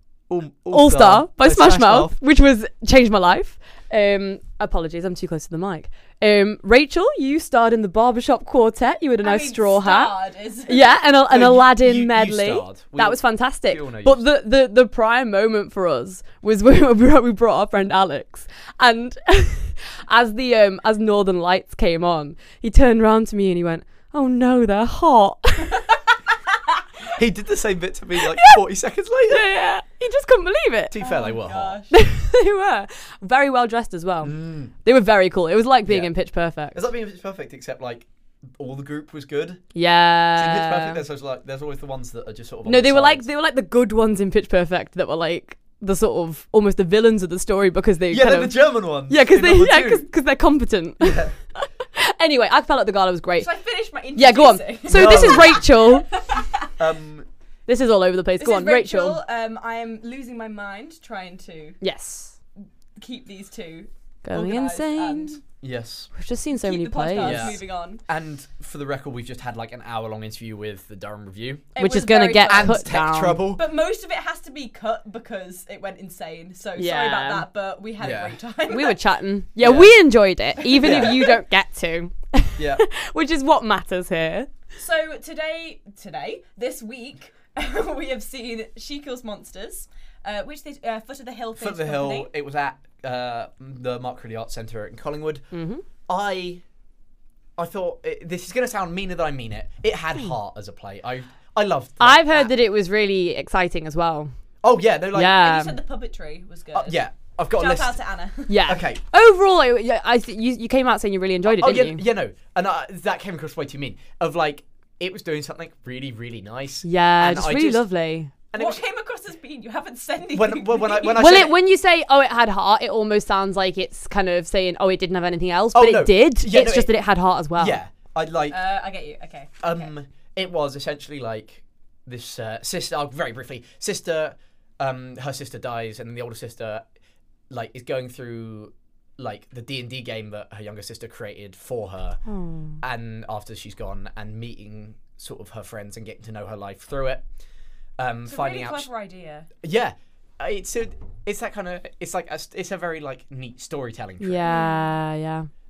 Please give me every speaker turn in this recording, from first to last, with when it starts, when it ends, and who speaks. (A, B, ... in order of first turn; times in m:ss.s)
0:00.3-0:02.2 A
0:00.7-0:10.1 B
0:09.2-0:10.9 C
0:10.7-0:25.8 B
0:11.3-0:14.2 A
0:27.1-0:29.5 A
0:28.3-0:28.6 B
0:29.3-0:31.0 B
0:30.9-0:31.8 A
0:31.0-0:31.9 C
0:31.9-0:36.8 B
0:34.2-0:34.7 A
0:35.8-0:36.1 A
0:36.7-0:39.7 A
0:39.7-0:41.0 B
0:40.3-0:43.3 A
0:42.7-0:53.5 B
0:48.1-0:50.1 A
0:51.0-0:51.3 A
0:53.4-0:56.7 C
0:54.2-0:56.1 B
0:54.9-0:55.7 A
0:56.8-0:57.3 A
0:57.7-0:59.2 B
0:58.4-1:01.8 C
1:01.8-1:02.3 B
1:03.0-1:05.4 C
1:04.2-1:05.4 B
1:05.6-1:06.1 A
1:06.1-1:07.6 B
1:06.6-1:08.0 C
1:07.2-1:11.7 A
1:11.7-1:12.9 C
1:11.8-1:13.4 B
1:12.5-1:13.6 A
1:13.5-1:19.0 C
1:16.8-1:17.4 B
1:18.0-1:18.4 A
1:18.7-1:24.5 B
1:19.6-1:19.9 A
1:20.6-1:21.3 C
1:20.8-1:21.2 A
1:22.6-1:22.8 A
1:24.8-1:32.3 C
1:31.6-1:35.5 A
1:35.5-1:35.8 B
1:36.1-1:36.6 A
1:37.6-1:42.5 A
1:42.0-1:44.3 B
1:44.6-1:45.4 A
1:45.1-1:45.7 B
1:45.3-1:48.6 C
1:46.7-1:48.0 A
1:48.5-1:52.0 B
1:48.7-1:49.0 A
1:51.5-1:57.9 A
1:56.8-1:58.3 B
1:58.5-1:58.8 A
1:58.6-2:01.5 C
2:00.3-2:01.5 A
2:01.2-2:07.8 B
2:05.7-2:06.9 A
2:07.5-2:08.6 A
2:08.5-2:09.9 C
2:09.6-2:16.8 A
2:17.5-2:22.2 A
2:22.2-2:22.8 B
2:22.8-2:27.2 A
2:28.0-2:28.9 A
2:28.2-2:29.5 C
2:29.6-2:34.5 A
2:34.2-2:35.5 B
2:34.5-2:34.8 C